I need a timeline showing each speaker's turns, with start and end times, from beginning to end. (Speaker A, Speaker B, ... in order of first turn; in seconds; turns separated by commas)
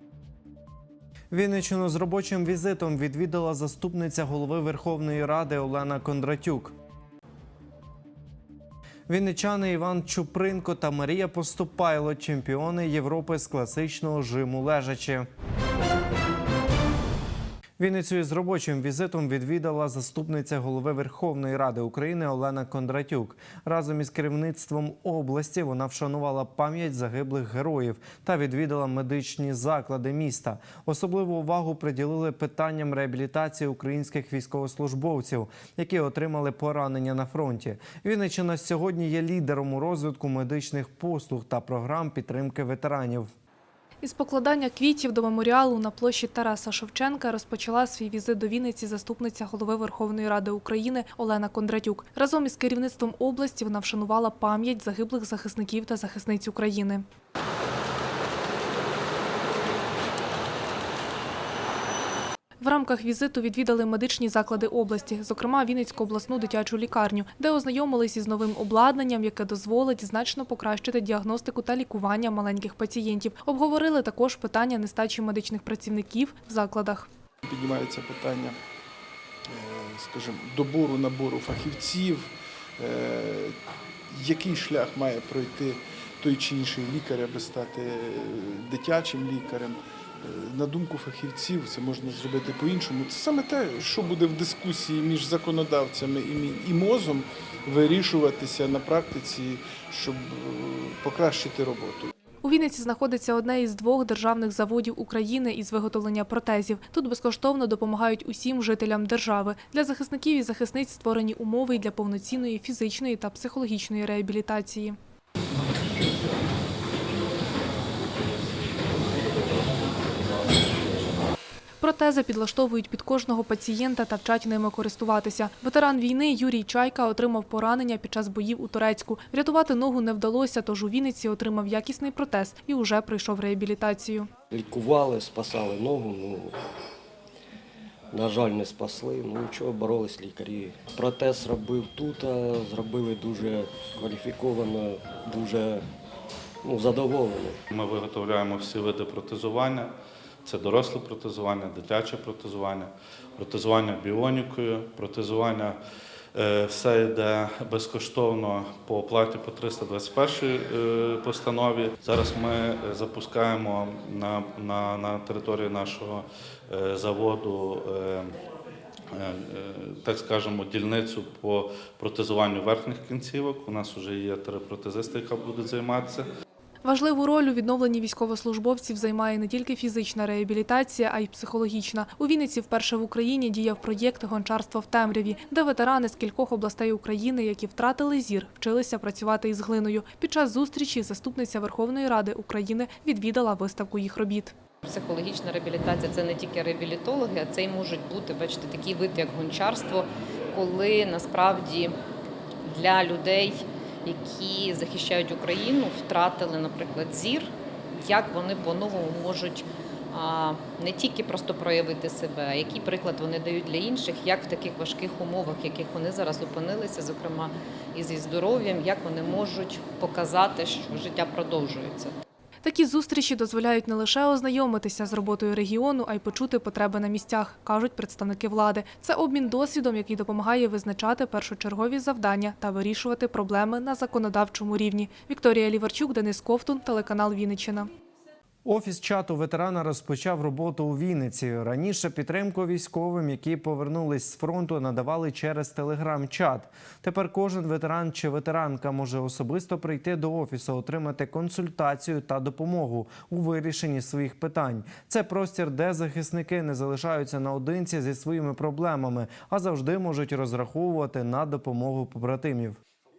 Speaker A: 1.3-6.7, Speaker A: 9.1-15.3, Speaker A: 17.8-43.3, Speaker B: 44.0-57.1, Speaker B: 62.6-77.1, Speaker C: 77.5-78.6, Speaker C: 79.5-83.6, Speaker C: 84.1-102.1, Speaker B: 102.4-115.0, Speaker B: 121.8-134.3, Speaker D: 134.5-136.5, Speaker D: 138.1-145.8, Speaker D: 146.6-147.6, Speaker E: 147.7-149.9, Speaker E: 150.4-155.8, Speaker E: 156.3-168.3, Speaker E: 169.1-176.3, Speaker B: 176.8-194.5, Speaker F: 194.8-202.0, Speaker F: 202.6-222.2, Speaker B: 222.6-237.9, Speaker A: 238.7-262.8